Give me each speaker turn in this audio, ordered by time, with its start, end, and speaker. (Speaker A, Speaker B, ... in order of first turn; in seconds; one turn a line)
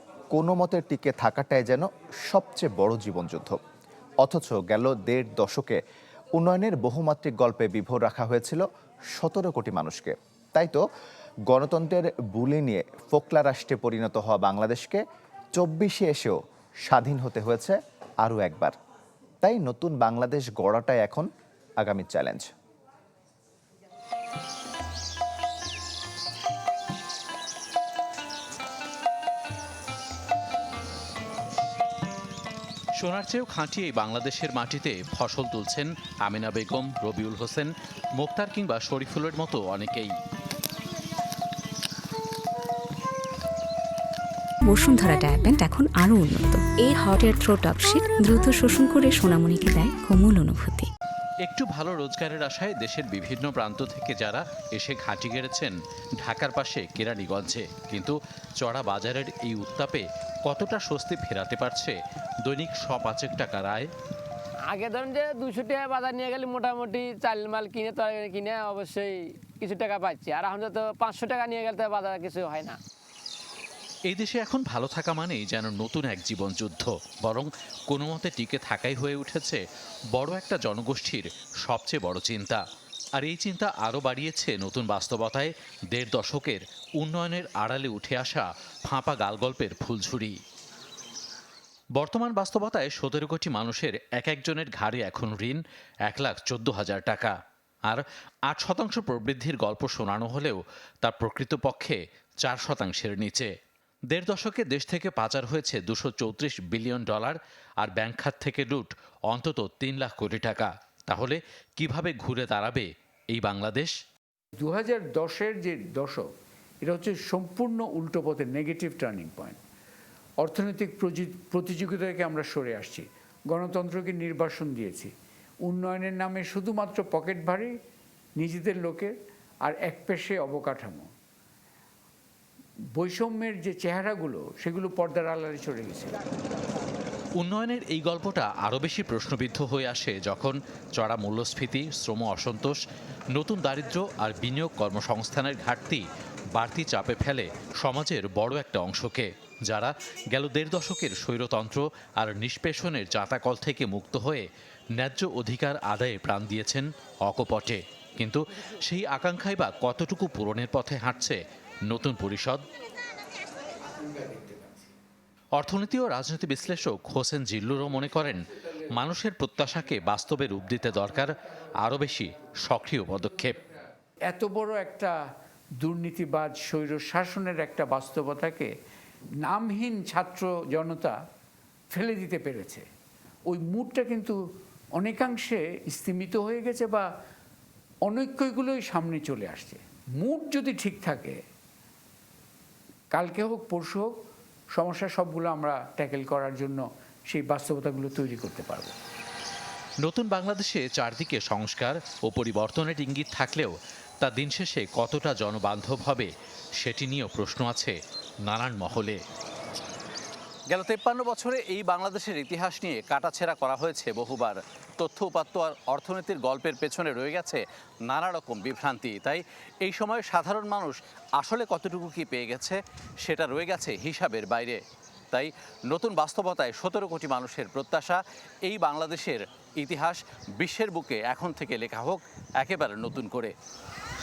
Speaker A: 0.3-3.6
Speaker A: 4.2-5.8
Speaker A: 6.3-8.6
Speaker A: 9.2-10.8
Speaker A: 11.5-15.0
Speaker A: 15.6-16.3
Speaker A: 16.9-18.8
Speaker A: 19.4-21.3
Speaker A: 21.8-22.5
Speaker B: 33.0-40.1
Speaker C: 44.7-50.9
Speaker B: 51.5-63.9
Speaker D: 64.7-72.8
Speaker B: 74.1-79.6
Speaker B: 80.1-82.6
Speaker B: 83.2-90.4
Speaker B: 92.0-97.3
Speaker B: 97.9-103.5
Speaker B: 104.1-113.9
Speaker E: 114.6-116.3
Speaker E: 116.8-119.6
Speaker E: 120.4-125.1
Speaker E: 125.6-127.7
Speaker E: 128.4-129.1
Speaker E: 129.7-131.1
Speaker E: 132.9-136.2
Speaker B: 137.4-142.8
Speaker B: 143.3-154.5
Speaker B: 155.0-162.6
Speaker E: 164.0-164.9
Speaker B: 165.6-173.6
Speaker E: 174.3-175.2
Speaker E: 175.8-178.7
Speaker E: 179.4-181.2
Speaker E: 181.9-182.8
Speaker E: 183.5-184.4
Speaker E: 185.0-187.1
Speaker E: 188.1-191.4
Speaker E: 193.1-194.1
Speaker E: 194.8-198.9
Speaker B: 200.0-206.3
Speaker B: 206.8-209.2
Speaker B: 210.7-224.8
Speaker B: 225.3-233.5